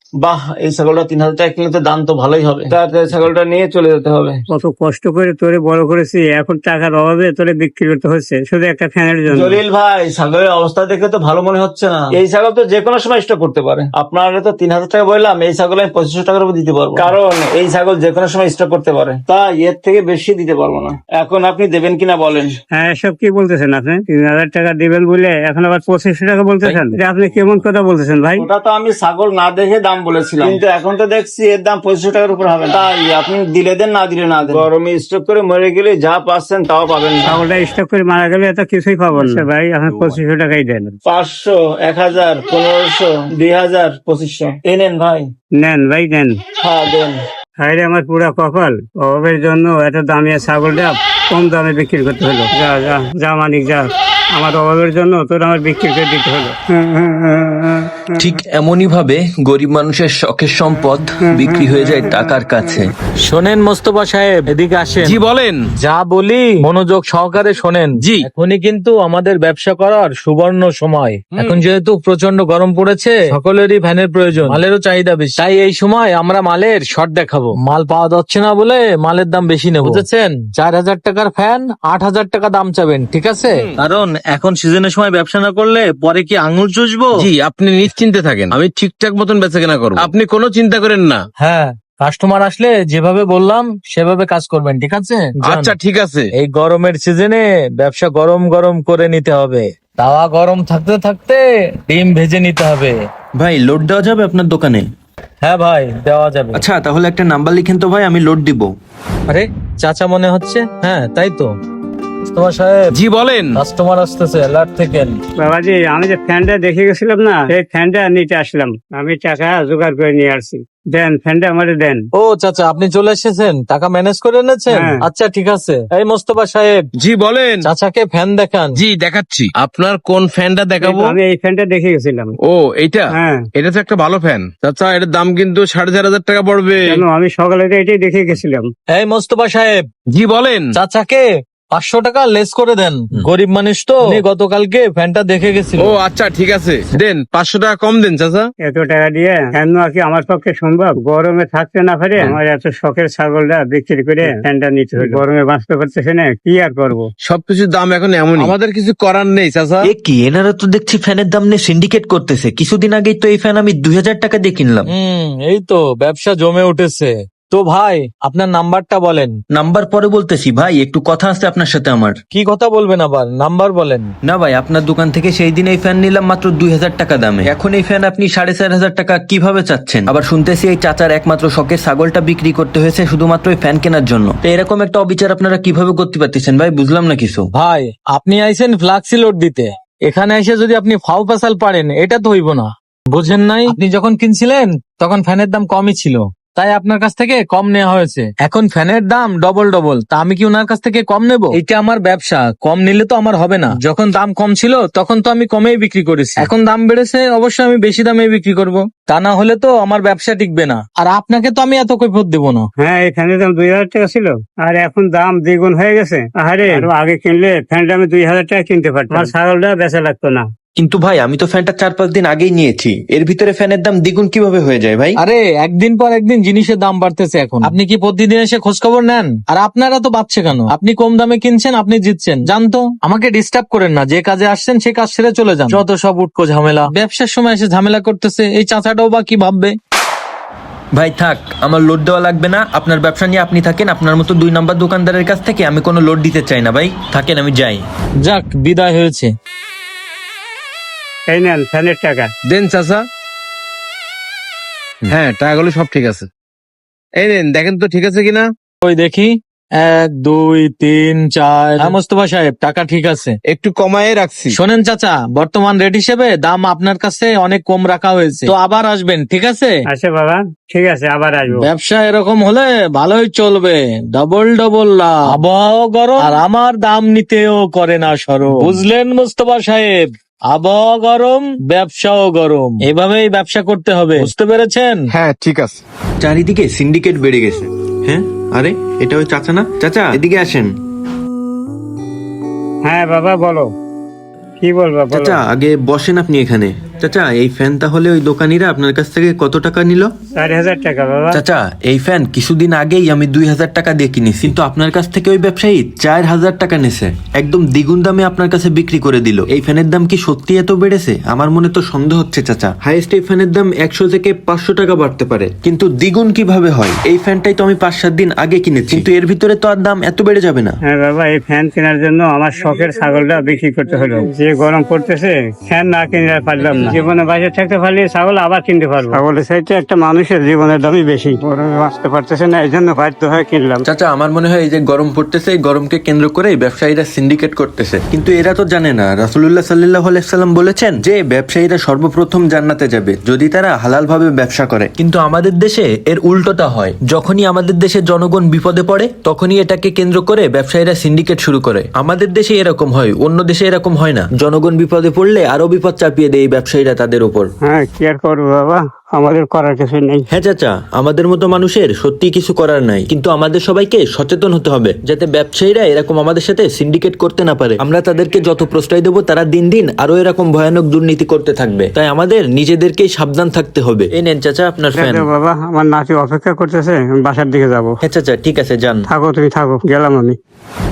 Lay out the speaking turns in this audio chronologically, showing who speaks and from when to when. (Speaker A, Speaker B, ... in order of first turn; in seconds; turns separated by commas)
Speaker A: 0.2-4.4, Speaker B: 4.5-9.6, Speaker A: 9.3-22.5, Speaker B: 22.7-28.5, Speaker A: 28.4-37.4, Speaker B: 37.3-41.0, Speaker A: 41.1-45.3, Speaker B: 45.6-46.4, Speaker A: 46.6-47.2, Speaker B: 47.6-57.8, Speaker C: 58.2-62.9, Speaker D: 63.2-65.2, Speaker E: 65.0-65.7, Speaker D: 65.8-87.2, Speaker E: 68.0-68.3, Speaker E: 71.3-71.6, Speaker E: 83.5-83.8, Speaker E: 87.2-91.2, Speaker D: 91.4-95.7, Speaker E: 95.4-96.3, Speaker D: 96.3-103.0, Speaker C: 103.4-104.8, Speaker D: 105.4-106.6, Speaker C: 106.5-108.7, Speaker D: 109.3-111.5, Speaker D: 112.3-112.9, Speaker E: 112.9-113.6, Speaker D: 113.5-115.2, Speaker B: 115.4-122.0, Speaker D: 122.1-126.8, Speaker B: 124.7-125.0, Speaker E: 127.0-127.7, Speaker D: 127.6-128.8, Speaker E: 128.7-131.2, Speaker B: 130.8-132.3, Speaker E: 132.4-137.0, Speaker B: 133.1-133.4, Speaker B: 136.8-138.7, Speaker D: 138.9-139.8, Speaker E: 140.1-140.8, Speaker D: 140.8-146.0, Speaker E: 145.8-148.5, Speaker B: 148.6-157.1, Speaker E: 157.2-159.9, Speaker C: 159.8-164.9, Speaker D: 164.9-169.4, Speaker C: 169.5-172.2, Speaker D: 172.3-174.1, Speaker C: 174.2-187.5, Speaker D: 187.5-212.7, Speaker B: 212.8-220.5, Speaker C: 220.8-225.2, Speaker D: 225.2-239.8, Speaker C: 241.0-247.8, Speaker D: 248.2-249.3, Speaker B: 251.3-252.3, Speaker E: 252.4-253.1, Speaker E: 255.1-256.3, Speaker E: 257.1-258.5, Speaker D: 258.8-263.4, Speaker E: 263.4-264.6, Speaker D: 264.5-269.8, Speaker B: 269.9-271.7, Speaker D: 271.6-285.1, Speaker E: 285.1-285.8, Speaker C: 286.2-290.7, Speaker B: 292.9-293.7, Speaker B: 294.6-295.4, Speaker C: 295.1-300.1, Speaker B: 300.4-301.4, Speaker C: 301.3-320.8, Speaker B: 320.9-333.8, Speaker C: 333.9-357.5, Speaker B: 357.6-360.3, Speaker C: 360.3-375.2, Speaker B: 374.9-378.0, Speaker C: 378.0-379.0, Speaker B: 379.1-380.4